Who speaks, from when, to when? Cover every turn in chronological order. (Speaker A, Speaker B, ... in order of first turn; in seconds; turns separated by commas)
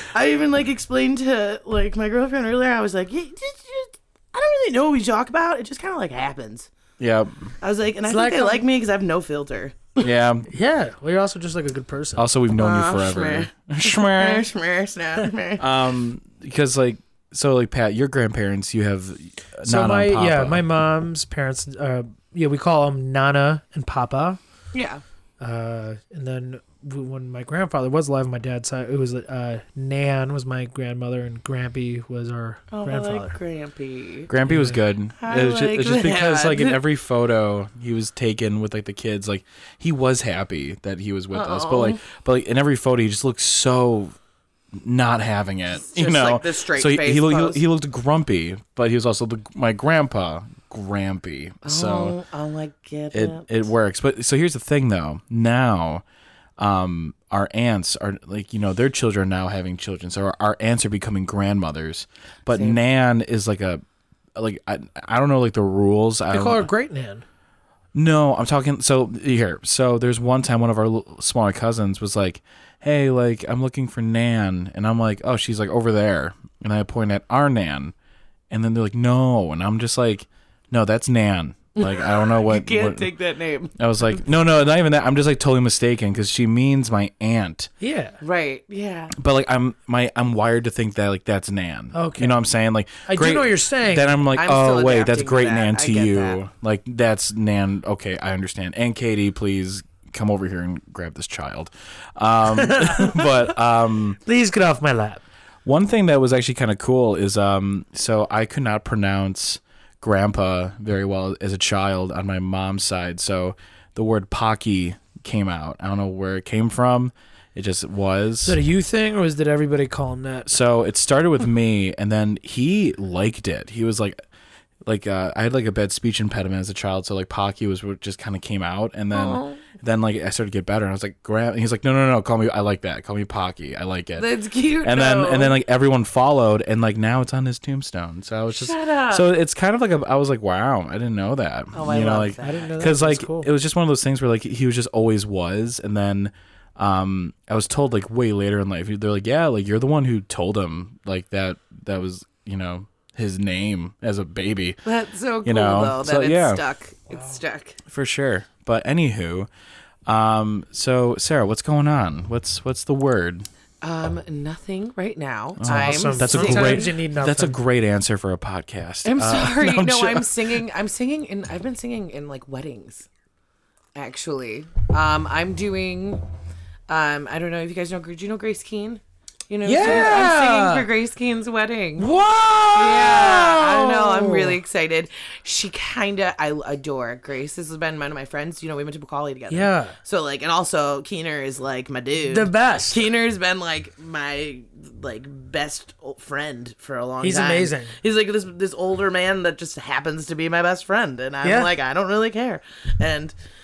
Speaker A: 0.1-6.7, Speaker B: 7.0-7.5, Speaker A: 7.6-10.0, Speaker C: 8.1-8.6, Speaker B: 10.0-10.5, Speaker C: 10.5-12.2, Speaker B: 12.2-14.4, Speaker A: 12.5-15.6, Speaker B: 15.6-20.6, Speaker C: 19.6-24.4, Speaker A: 24.7-25.0, Speaker C: 25.4-33.3, Speaker A: 32.7-34.3, Speaker B: 34.3-44.1, Speaker C: 34.5-34.8, Speaker A: 35.2-36.8, Speaker A: 41.3-42.0, Speaker B: 44.8-52.2, Speaker A: 45.8-47.6, Speaker A: 51.6-53.7, Speaker B: 53.1-56.0, Speaker B: 56.6-63.8, Speaker A: 62.5-62.8, Speaker B: 64.3-66.7, Speaker C: 66.3-67.2, Speaker B: 67.9-77.9, Speaker B: 78.5-83.1, Speaker A: 81.8-84.2, Speaker B: 83.8-87.7, Speaker C: 87.8-88.2, Speaker A: 88.2-89.1, Speaker B: 89.2-104.2, Speaker C: 91.9-92.4, Speaker C: 93.1-94.2, Speaker A: 94.3-96.4, Speaker C: 102.5-103.5, Speaker C: 104.2-105.2, Speaker B: 105.6-118.6, Speaker C: 118.5-120.5, Speaker B: 120.5-124.2, Speaker B: 124.8-154.8, Speaker A: 129.1-129.6, Speaker A: 134.2-135.6, Speaker A: 138.5-139.3, Speaker A: 141.7-142.9, Speaker C: 142.4-143.5, Speaker A: 154.8-157.8, Speaker B: 155.4-156.6, Speaker B: 157.8-159.5, Speaker B: 160.1-163.5, Speaker A: 163.8-166.9, Speaker B: 165.6-170.5, Speaker C: 165.7-167.6, Speaker A: 169.0-173.1, Speaker A: 173.9-176.2, Speaker A: 176.9-182.1, Speaker C: 179.6-180.9, Speaker C: 182.0-184.6, Speaker A: 182.7-203.3, Speaker C: 189.5-189.9, Speaker C: 192.2-193.0, Speaker C: 197.2-197.9, Speaker C: 201.4-201.7